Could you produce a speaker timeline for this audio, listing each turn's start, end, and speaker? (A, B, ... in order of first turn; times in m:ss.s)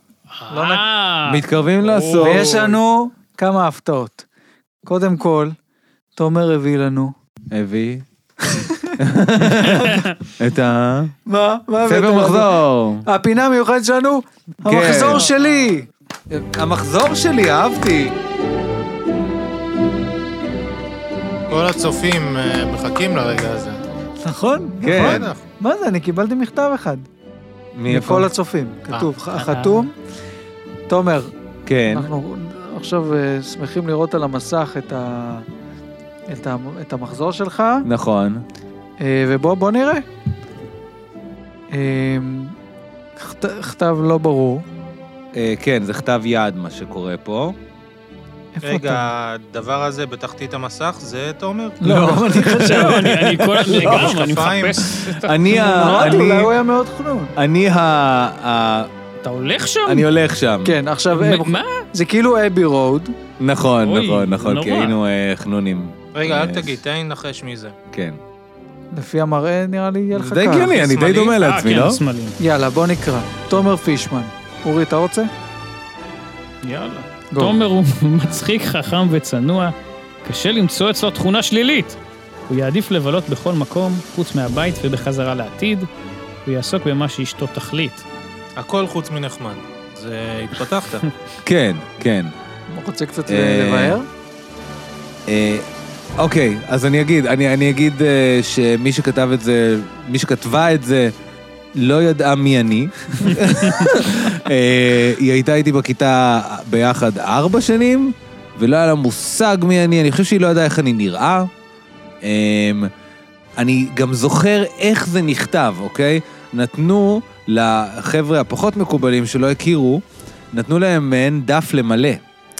0:00.3-0:02.8 A
0:00.5-0:00.8 B
0:01.2-0:02.6 C
0:02.2-0:04.2 B
0:04.8-0:05.5 B
0:06.2-0:07.1 B
0:07.5-0:08.0 C
0:08.4-0:10.0 B
0:09.0-0:11.1 C
0:09.7-0:10.1 A
0:11.3-0:15.9 B
0:11.8-0:13.0 C
0:14.7-0:15.2 C
0:16.3-0:18.1 C
0:21.5-0:23.8 D
0:24.2-0:27.0 B
0:24.8-0:25.3 C
0:24.9-0:25.4 D
0:27.7-0:28.3 C
0:27.9-0:29.9 B
0:29.3-0:29.9 A
0:30.9-0:31.3 B
0:31.6-0:32.1 C
0:31.9-0:35.4 B
0:36.3-0:37.9 B
0:37.8-0:38.4 C
0:39.0-0:40.0 B
0:41.7-0:42.5 B
0:43.2-0:44.6 B
0:45.3-0:47.6 C
0:48.5-0:49.0 B
0:48.6-0:51.8 D
0:51.8-0:53.1 B
0:51.8-0:54.1 C
0:52.5-0:56.2 A
0:53.7-0:54.9 D
0:55.0-0:56.5 C
0:55.5-0:57.3 B
0:57.4-0:58.9 C
0:59.2-1:00.0 A
0:59.8-1:00.8 C
1:00.6-1:03.1 B
1:01.1-1:01.8 A
1:03.4-1:06.8 C
1:03.8-1:05.0 A
1:06.1-1:07.7 D
1:07.9-1:08.2 C
1:08.9-1:10.8 B
1:10.1-1:12.0 C
1:10.6-1:11.3 D
1:11.3-1:12.4 A
1:12.4-1:15.3 B
1:16.6-1:22.0 A
1:17.3-1:17.6 B
1:22.5-1:25.9 A
1:26.4-1:28.0 A
1:28.6-1:31.0 D
1:31.4-1:32.3 C
1:32.7-1:34.0 B
1:33.3-1:34.0 C
1:35.3-1:35.6 C
1:36.2-1:41.1 C
1:41.8-1:51.5 C
1:52.2-1:52.9 C
1:53.6-2:02.2 C